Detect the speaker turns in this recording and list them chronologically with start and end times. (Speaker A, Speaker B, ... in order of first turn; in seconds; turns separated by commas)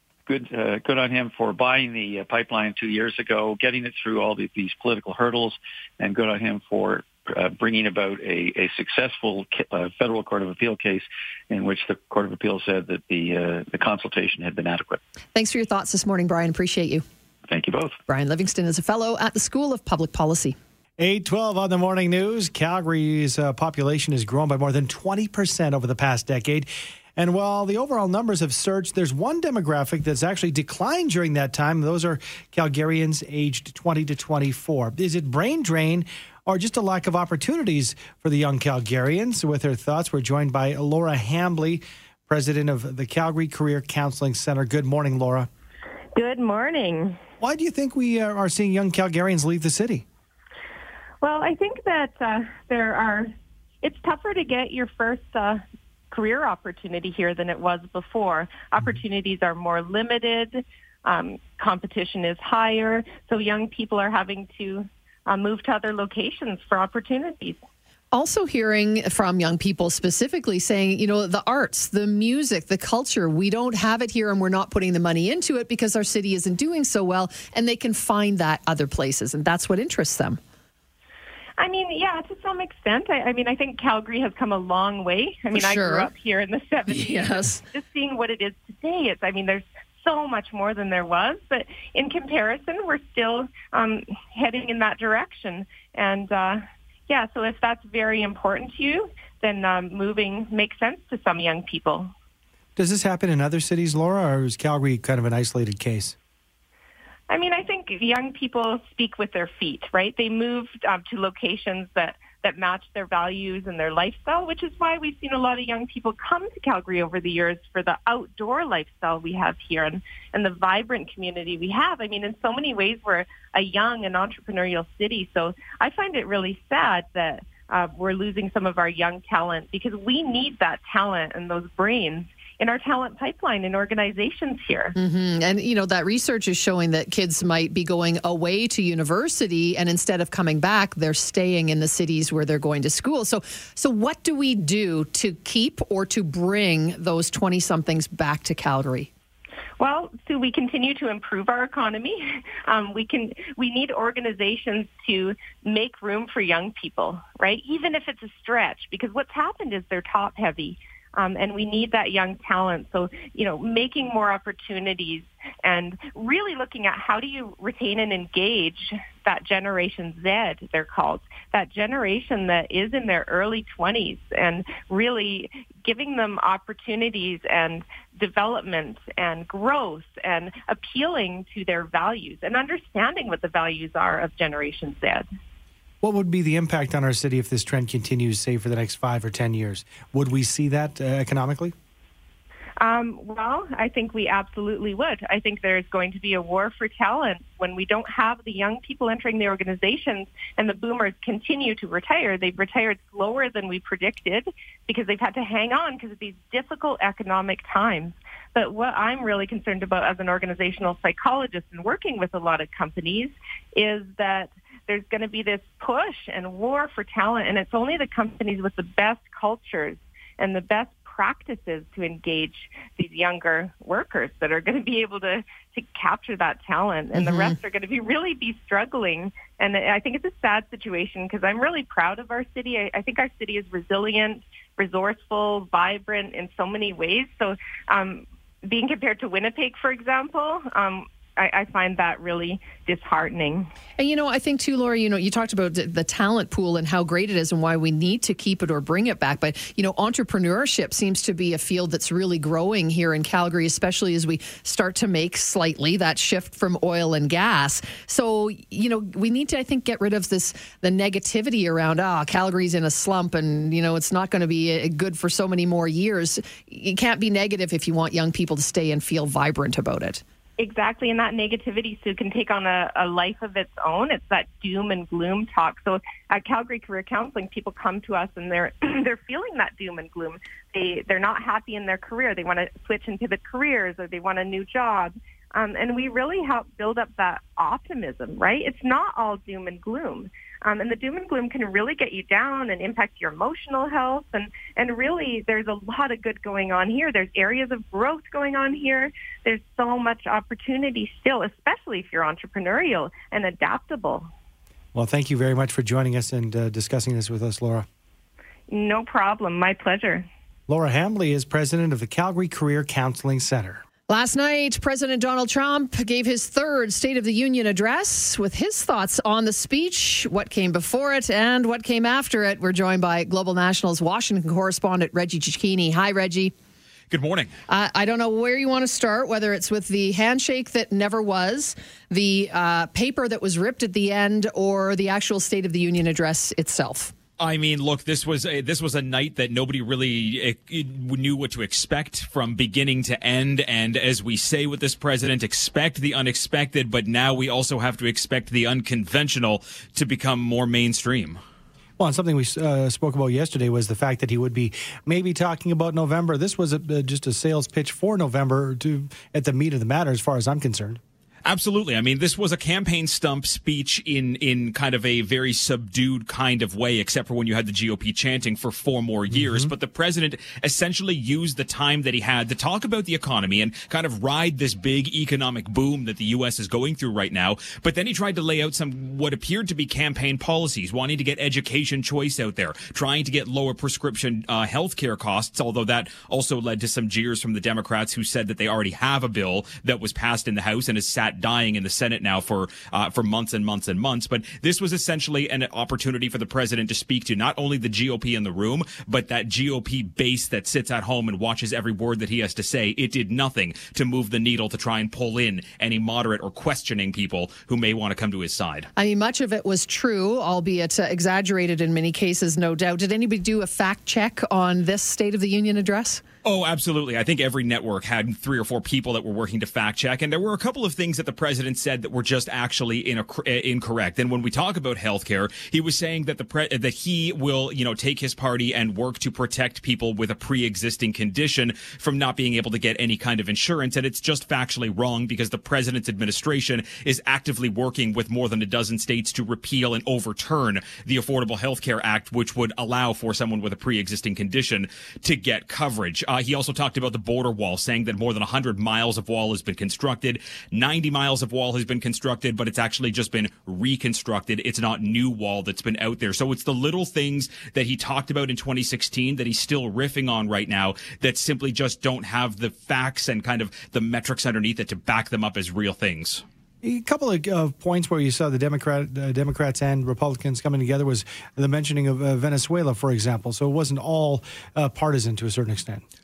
Speaker A: 0.3-15.0, Speaker B: 15.3-17.0, Speaker A: 17.5-18.0, Speaker B: 18.1-20.6, Speaker C: 21.0-45.5, Speaker D: 46.2-47.2, Speaker C: 47.4-50.0, Speaker D: 51.2-67.6, Speaker B: 68.1-80.4, Speaker D: 81.6-102.1, Speaker B: 85.5-86.1, Speaker B: 86.9-87.6, Speaker C: 102.8-106.2, Speaker D: 107.3-134.9, Speaker B: 134.9-149.1, Speaker D: 149.8-185.2, Speaker C: 186.0-191.7, Speaker D: 192.8-243.7, Speaker B: 227.1-227.6, Speaker B: 244.0-270.2, Speaker D: 270.6-304.3, Speaker C: 304.9-307.9, Speaker D: 308.7-310.3, Speaker C: 310.7-313.8, Speaker B: 314.1-326.5, Speaker E: 327.1-327.5, Speaker B: 327.7-337.1, Speaker E: 337.4-351.4, Speaker C: 352.0-361.0, Speaker E: 361.4-408.9, Speaker B: 408.9-416.2, Speaker E: 416.4-466.4, Speaker C: 466.8-476.0